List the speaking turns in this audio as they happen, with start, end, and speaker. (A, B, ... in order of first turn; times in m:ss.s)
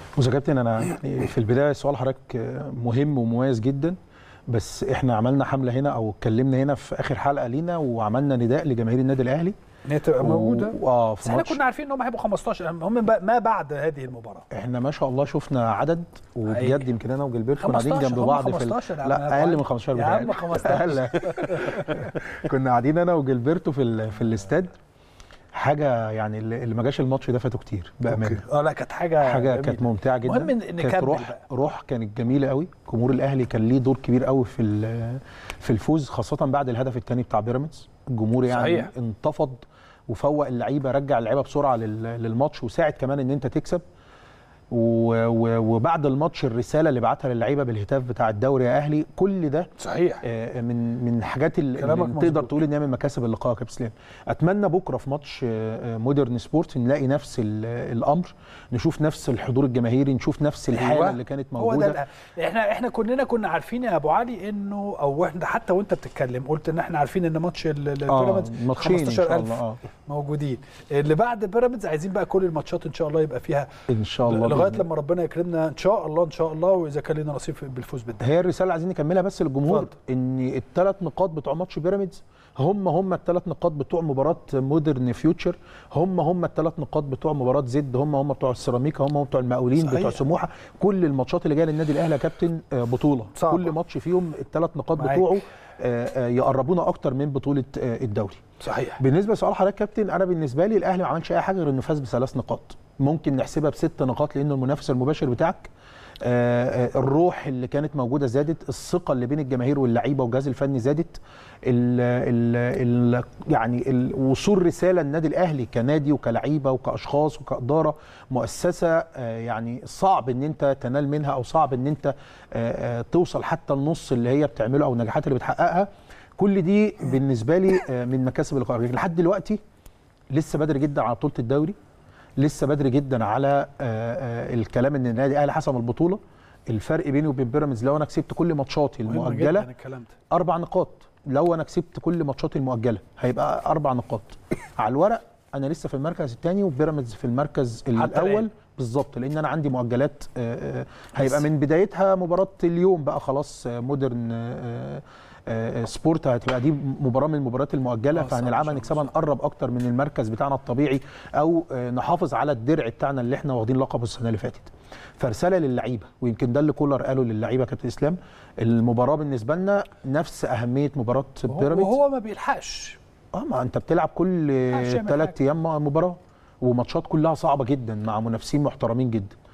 0:00.2-0:04.0 A
0:04.5-0:09.6 A
0:09.9-0:14.5 B
0:10.2-0:11.6 A
0:14.5-0:24.7 A
0:16.5-0:16.9 B
0:17.6-0:22.0 B
0:25.5-0:28.4 A
0:28.1-0:31.4 B
0:29.2-0:43.8 A
0:38.5-0:38.9 B
0:44.7-0:49.7 A
0:49.8-0:50.2 B
0:50.2-1:02.0 A
0:51.8-0:52.5 B
1:00.7-1:13.7 B
1:08.1-1:09.8 A
1:13.9-1:14.9 A
1:14.3-1:18.3 B
1:18.2-1:38.4 A
1:29.8-1:30.2 B
1:33.4-1:33.7 B
1:35.0-1:35.3 B
1:38.6-1:39.0 B
1:39.0-1:45.7 A
1:46.2-2:09.6 A
2:10.3-2:11.8 A
2:12.4-2:19.7 A
2:19.1-2:20.2 B
2:20.3-2:52.0 A
2:28.0-2:28.4 B
2:38.1-2:39.1 B
2:51.5-2:53.0 B
2:53.3-2:59.4 A
2:54.7-2:55.4 B